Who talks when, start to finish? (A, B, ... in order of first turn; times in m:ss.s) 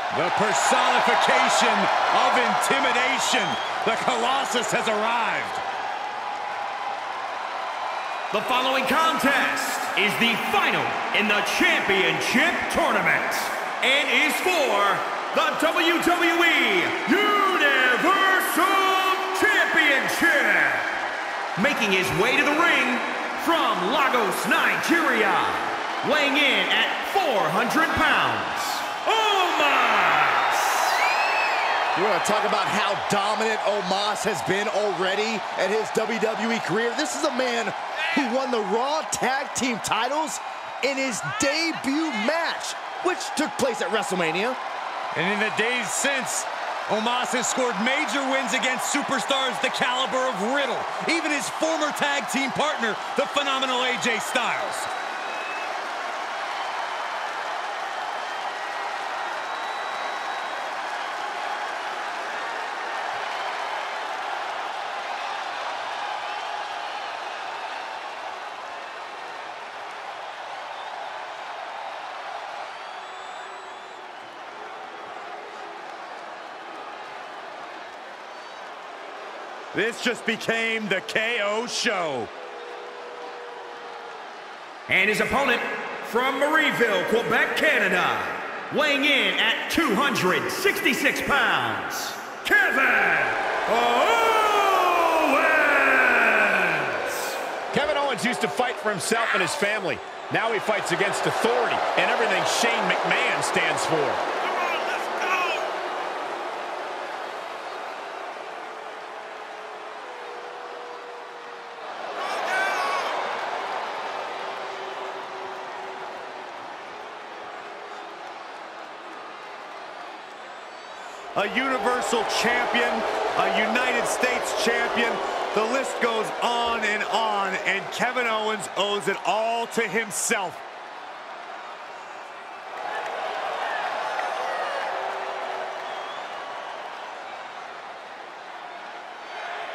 0:00.1-0:05.6 A
0:08.3-0:08.7 B
0:08.4-0:17.1 C
0:09.6-0:12.8 B
0:13.7-0:14.4 B
0:15.2-0:15.7 B
0:17.2-0:18.4 A
0:18.0-0:18.8 C
0:18.9-0:19.6 A
0:19.6-0:20.5 C
0:21.6-0:29.0 C
0:21.6-0:22.0 B
0:29.0-0:30.5 A
0:32.0-0:44.6 D
0:45.1-0:54.9 A
1:19.7-1:22.3 A
1:24.9-1:27.5 B
1:24.9-1:25.6 C
1:26.2-1:32.0 C
1:28.0-1:32.2 B
1:32.4-1:37.1 A
1:37.7-1:44.2 B
2:01.4-2:10.6 A